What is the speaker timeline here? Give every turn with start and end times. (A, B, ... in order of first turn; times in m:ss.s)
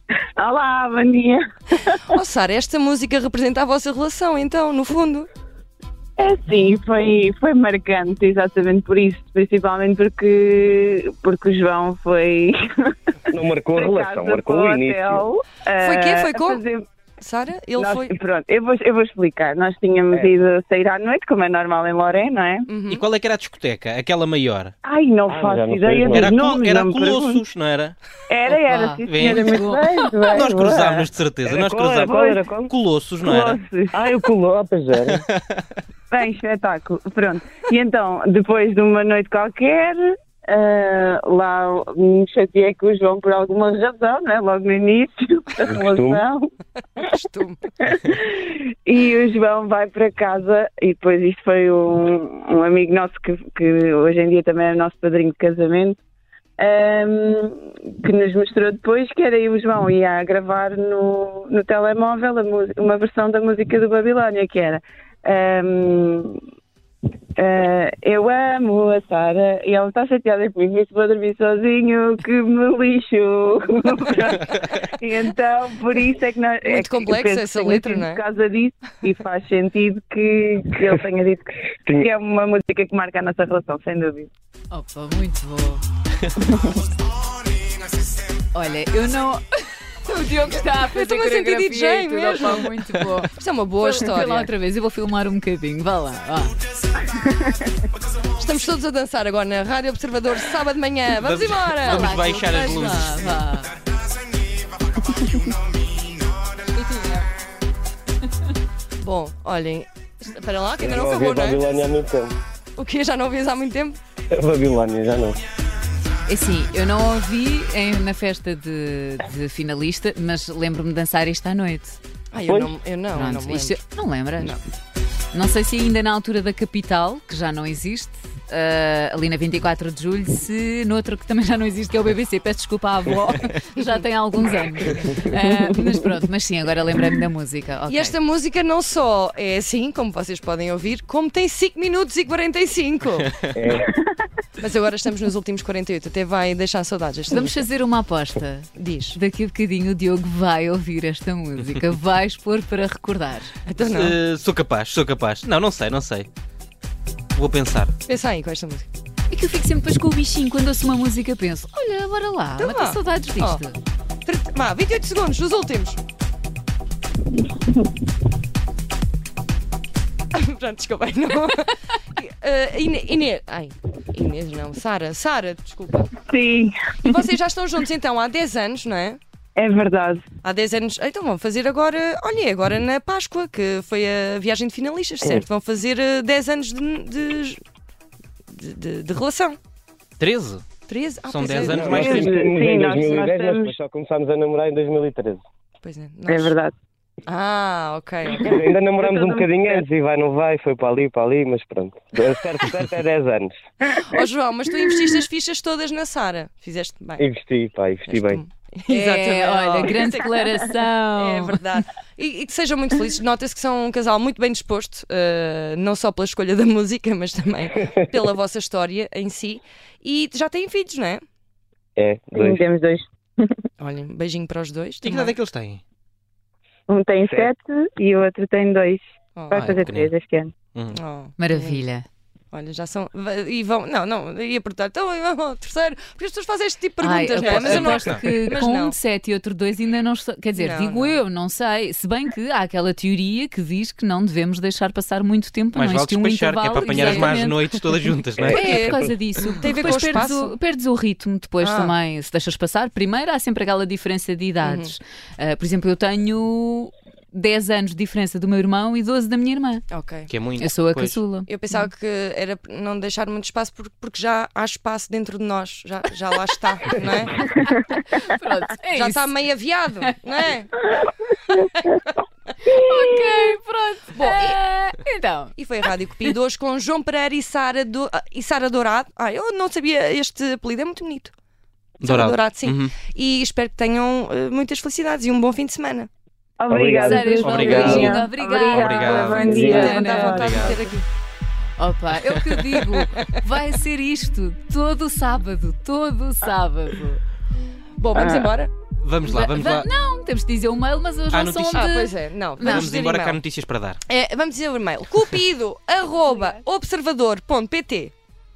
0:00.4-0:02.0 A
0:02.1-0:05.3 B
0:06.2-0:12.6 A
0:13.3-0:15.2 C
0:13.8-0:16.8 A
0:15.8-0:16.6 B
0:17.2-0:18.1 B
0:17.8-0:22.7 A
0:22.7-0:23.0 B
0:22.9-0:24.7 D
0:24.8-0:27.4 A
0:25.3-0:26.3 C
0:26.0-0:28.0 D
0:28.3-0:31.1 A
0:28.5-0:30.0 E
0:29.0-0:33.6 D
0:31.4-0:32.7 C
0:32.1-0:32.4 A
0:33.2-0:34.1 A
0:33.9-0:35.2 C
0:35.1-0:35.6 D
0:36.1-0:46.4 A
0:45.6-0:46.2 C
0:47.0-0:47.6 B
0:47.8-0:56.0 A
0:56.6-1:06.4 A
1:07.4-1:24.3 A
1:16.6-1:18.2 B
1:24.7-1:25.8 E
1:28.5-1:36.6 E
1:30.8-1:34.5 B
1:38.4-1:42.7 B
1:41.2-1:43.3 D
1:41.8-1:43.8 E
1:49.0-1:51.9 B
1:50.8-1:52.4 C
1:52.8-1:54.0 B
1:54.3-1:55.4 C
1:56.3-2:02.0 E
2:02.3-2:03.8 B
2:02.5-2:02.8 C
2:03.1-2:04.6 E
2:05.3-2:18.2 E
2:13.8-2:14.0 B
2:17.9-2:23.3 B
2:23.5-2:23.9 C
2:24.6-2:27.6 B
2:27.3-2:33.5 E
2:28.8-2:29.2 B
2:33.7-2:34.2 B
2:33.8-2:36.3 D
2:37.3-2:37.9 D
2:38.1-2:38.9 B
2:39.3-2:43.8 E
2:42.6-2:43.6 B
2:44.2-2:46.0 B
2:50.3-2:56.1 B
2:56.2-2:57.1 A
2:57.0-2:59.2 B
2:59.6-3:00.2 A
3:00.4-3:07.6 B
3:08.5-3:09.6 B
3:10.2-3:10.6 D
3:10.9-3:11.9 B
3:11.3-3:12.4 D
3:11.6-3:15.4 C
3:11.8-3:13.7 A
3:15.8-3:16.5 B
3:16.3-3:16.7 A
3:17.3-3:18.5 B
3:18.4-3:23.5 C
3:18.5-3:19.5 A
3:23.9-3:27.2 B
3:27.2-3:28.4 C
3:28.1-3:41.2 B
3:28.9-3:31.6 E
3:42.0-3:42.6 C
3:42.4-3:43.5 A
3:43.8-3:45.4 B
3:45.0-3:45.8 D
3:46.9-3:50.5 A
3:49.5-3:50.1 D
3:50.7-3:51.0 D
3:50.9-3:51.8 B
3:51.4-3:52.0 E
3:52.5-3:59.0 B
3:57.0-4:07.6 E
3:57.4-3:58.2 D
4:00.5-4:01.2 B
4:05.7-4:08.8 D
4:06.7-4:07.4 B
4:08.4-4:09.1 C
4:08.5-4:19.8 E
4:08.5-4:08.9 B
4:09.4-4:10.5 B
4:11.6-4:11.9 B
4:14.6-4:14.9 B
4:19.9-4:20.3 B
4:20.3-4:21.2 D
4:20.6-4:21.8 E
4:21.5-4:27.5 B
4:27.4-4:29.3 E
4:28.9-4:30.9 B
4:31.5-4:32.0 B
4:32.6-4:35.5 E
4:34.1-4:34.6 B
4:35.6-4:41.3 B
4:42.0-4:43.0 D
4:42.0-4:46.1 B
4:46.6-4:50.8 A
4:46.7-4:48.2 C
4:47.0-4:50.5 E
4:47.4-4:49.6 D
4:49.4-4:49.9 C
4:49.6-4:51.0 B
4:50.3-4:50.8 D
4:51.8-4:57.2 E
4:58.0-4:58.7 B
4:58.2-4:58.4 A
4:59.0-4:59.9 D
4:59.2-5:02.9 E
5:01.3-5:01.9 D
5:01.7-5:03.4 B
5:02.6-5:04.0 D
5:04.0-5:08.1 B